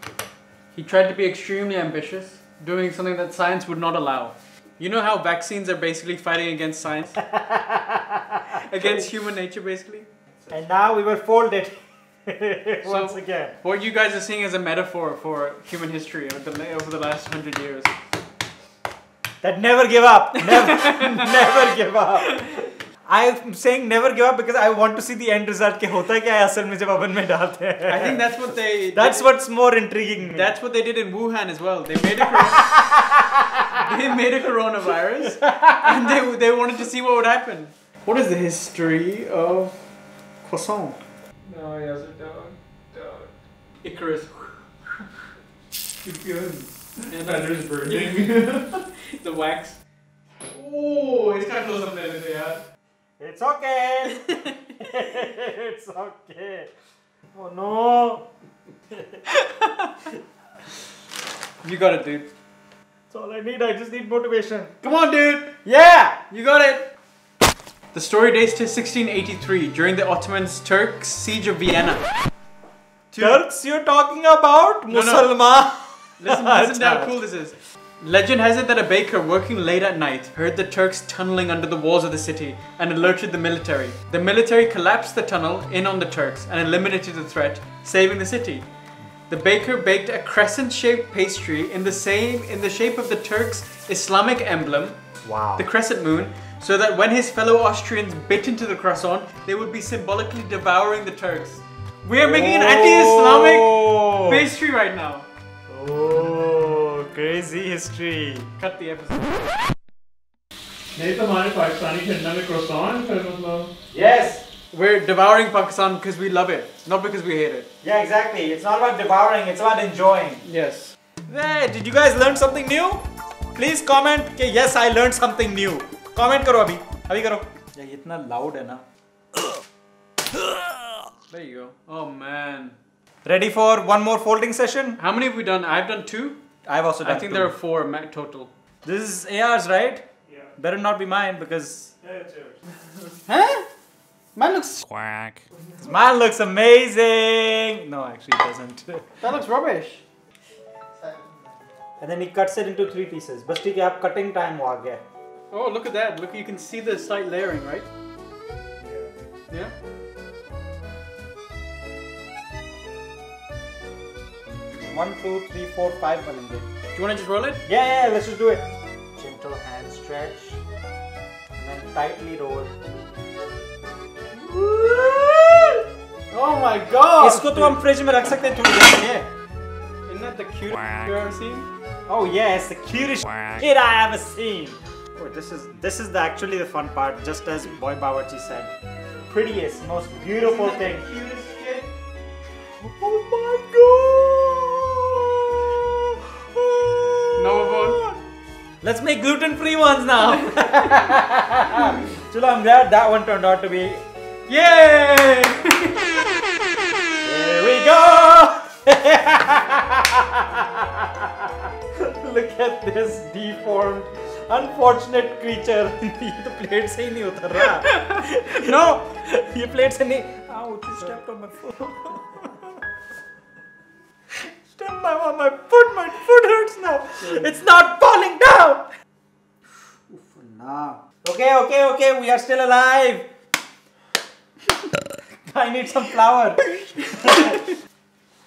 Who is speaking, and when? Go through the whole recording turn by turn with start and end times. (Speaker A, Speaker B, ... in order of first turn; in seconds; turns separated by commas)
Speaker A: 0.7-7.2, Speaker B: 7.2-9.1, Speaker A: 8.7-10.1, Speaker B: 10.5-13.6, Speaker A: 12.8-17.9, Speaker B: 19.4-28.3, Speaker A: 20.4-21.6, Speaker A: 27.9-29.3, Speaker B: 28.9-30.5, Speaker A: 30.3-32.7, Speaker B: 32.3-33.6, Speaker A: 33.8-39.8, Speaker B: 35.2-36.2, Speaker A: 40.4-41.0, Speaker C: 41.5-43.2, Speaker A: 43.8-44.5, Speaker B: 46.1-46.5, Speaker A: 47.1-49.8, Speaker C: 47.2-48.3, Speaker A: 50.5-52.6, Speaker B: 53.2-56.7, Speaker B: 57.3-58.3, Speaker A: 59.3-59.9, Speaker A: 61.6-62.3, Speaker B: 63.1-64.7, Speaker A: 64.8-65.6, Speaker B: 65.6-66.2, Speaker A: 66.3-66.9, Speaker A: 67.9-72.0, Speaker A: 73.1-73.4, Speaker B: 73.2-77.1, Speaker A: 74.9-75.3, Speaker A: 76.2-88.7, Speaker A: 89.3-95.0, Speaker B: 95.2-95.7, Speaker A: 95.6-105.2, Speaker B: 102.2-104.5, Speaker B: 105.7-108.5, Speaker A: 108.6-109.4, Speaker C: 110.9-113.7, Speaker B: 113.9-114.5, Speaker A: 114.7-117.7, Speaker B: 117.8-120.4, Speaker A: 120.4-120.9, Speaker B: 121.3-123.0, Speaker B: 123.6-128.8, Speaker B: 130.4-130.7, Speaker A: 131.3-132.8, Speaker B: 133.2-135.0, Speaker A: 135.0-136.4, Speaker B: 136.7-137.5, Speaker A: 137.0-138.5, Speaker B: 138.8-140.0, Speaker C: 140.3-140.5, Speaker B: 140.6-141.9, Speaker C: 142.0-142.6, Speaker A: 143.3-143.7, Speaker A: 144.4-144.9, Speaker B: 145.8-149.1, Speaker A: 149.2-150.0, Speaker B: 152.0-155.0, Speaker A: 155.5-157.9, Speaker C: 158.8-159.1, Speaker B: 164.7-166.7, Speaker A: 166.9-167.6, Speaker B: 167.7-170.6, Speaker B: 171.6-172.7, Speaker B: 174.3-175.8, Speaker A: 176.3-177.8, Speaker B: 177.2-179.3, Speaker A: 180.1-181.7, Speaker B: 182.1-188.7, Speaker B: 189.3-191.0, Speaker A: 190.4-191.9, Speaker B: 192.8-198.2, Speaker A: 197.4-198.0, Speaker B: 198.8-204.0, Speaker A: 204.5-206.1, Speaker B: 207.2-222.8, Speaker A: 217.9-219.0, Speaker B: 224.3-228.9, Speaker B: 230.1-233.3, Speaker B: 235.5-237.6, Speaker A: 237.2-237.5